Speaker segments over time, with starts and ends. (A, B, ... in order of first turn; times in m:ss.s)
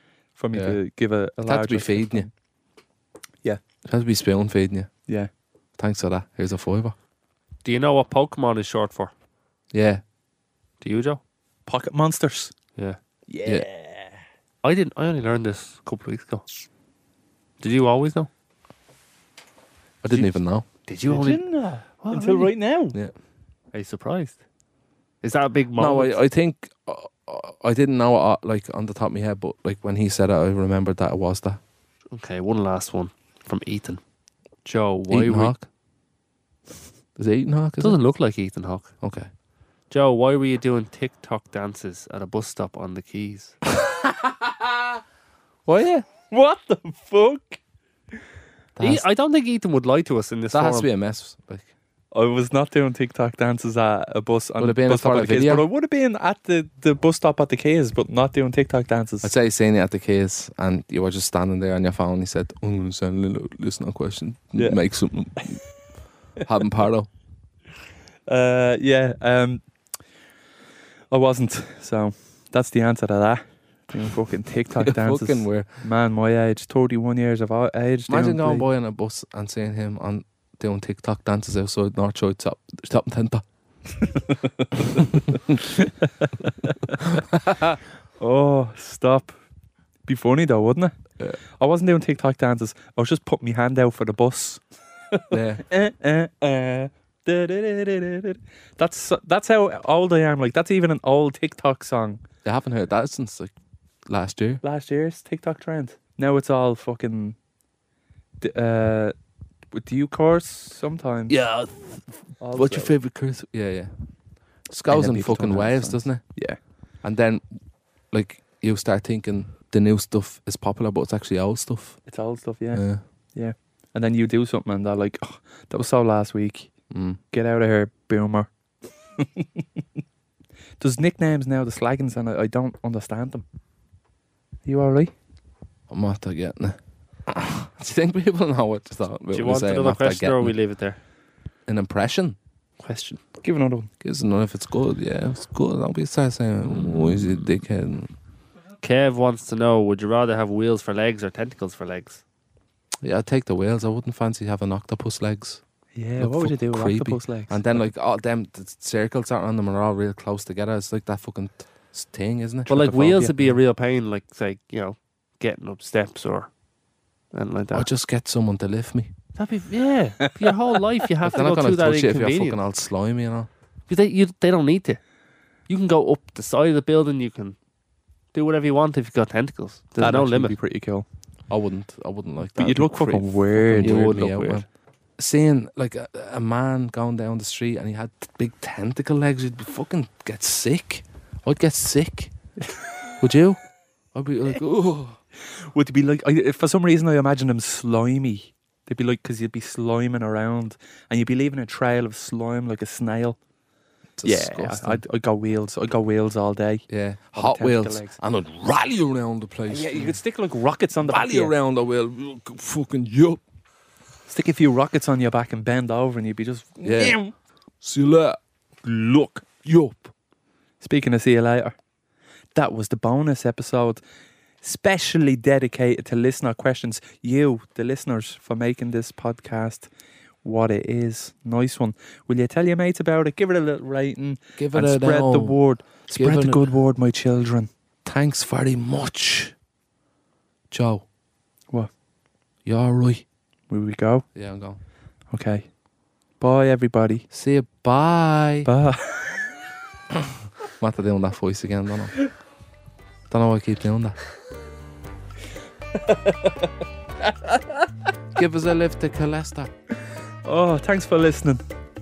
0:00.4-0:02.3 A
0:00.5-0:00.8 B
0:01.4-0:02.3 B
0:03.9-0:04.9 B
0:05.8-0:07.0 B
0:07.6-0:09.1 C
0:09.7-0:10.0 B
0:10.8-0:11.2 C
0:11.7-0:12.5 A
0:13.3-0:14.2 A
0:14.6-0:16.5 C
0:17.6-0:18.3 C
0:20.0-0:20.7 B
0:20.1-0:22.5 C
0:21.1-0:23.0 A
0:23.7-0:24.4 C
0:25.2-0:26.2 C
0:25.8-0:31.6 B
0:32.1-0:34.0 C
0:34.6-0:35.6 C
0:35.1-0:35.7 B
0:37.2-0:38.0 B
0:37.8-0:38.9 C
0:39.0-0:39.3 B
0:39.9-0:43.6 C
0:43.8-0:44.8 B
0:45.7-0:46.0 B
0:46.3-0:47.6 A
0:48.8-0:49.0 B
0:48.8-0:50.9 C
0:50.5-0:51.7 B
0:52.1-0:59.3 A
0:54.6-0:55.7 B
0:59.2-1:05.6 B
1:06.4-1:07.1 B
1:08.3-1:09.6 A
1:11.1-1:18.6 A
1:14.8-1:15.7 B
1:18.1-1:23.4 B
1:24.0-1:27.0 A
1:28.2-1:29.4 A
1:30.1-1:30.9 A
1:31.6-1:34.6 A
1:35.1-1:42.2 A
1:35.3-1:35.6 B
1:42.4-1:43.5 B
1:44.1-1:44.6 B
1:44.6-1:47.4 A
1:48.4-1:49.1 A
1:49.7-1:51.4 A
1:51.3-1:53.9 B
1:52.4-1:53.0 A
1:54.7-1:56.2 B
1:54.9-1:56.6 A
1:57.0-1:57.4 B
1:58.1-2:02.0 B
2:02.1-2:02.8 A
2:02.7-2:03.0 B
2:03.4-2:06.7 A
2:06.9-2:07.2 B
2:07.3-2:08.5 A
2:09.2-2:09.6 A
2:10.8-2:13.4 A
2:14.7-2:15.1 A
2:15.9-2:20.6 B
2:19.3-2:21.0 C
2:21.7-2:22.4 B
2:22.8-2:23.2 C
2:23.4-2:23.9 A
2:24.0-2:28.1 B
2:28.8-2:32.2 C
2:33.0-2:35.6 B
2:36.0-2:37.9 A
2:36.2-2:42.9 B
2:42.7-2:46.5 C
2:42.7-2:43.5 A
2:47.3-2:47.9 C
2:47.7-2:49.1 B
2:49.4-2:52.6 C
2:51.2-2:53.5 B
2:53.9-2:55.0 C
2:55.7-2:57.6 C
2:58.3-3:00.6 C
3:00.0-3:01.1 A
3:01.5-3:04.7 B
3:02.6-3:04.1 A
3:03.6-3:04.6 C
3:05.2-3:12.3 B
3:13.2-3:13.6 B
3:14.1-3:15.2 B
3:15.6-3:23.4 A
3:24.2-3:25.0 B
3:24.2-3:28.2 A
3:26.9-3:30.2 B
3:29.7-3:31.5 A
3:31.0-3:33.4 B
3:34.3-3:37.3 A
3:36.8-3:37.2 B
3:37.8-3:40.1 B
3:40.8-3:41.8 A
3:42.6-3:44.0 A
3:44.6-3:49.9 A
3:50.4-3:57.7 A
3:54.6-3:56.6 B
3:58.0-3:59.5 B
4:00.7-4:01.0 B
4:02.6-4:03.2 B
4:03.7-4:04.2 A
4:04.3-4:04.8 B
4:05.3-4:05.7 A
4:06.4-4:07.3 A
4:07.3-4:08.7 B
4:08.6-4:09.5 A
4:10.8-4:12.2 B
4:13.3-4:14.2 B
4:16.0-4:16.7 A
4:18.4-4:19.7 B
4:20.4-4:21.6 A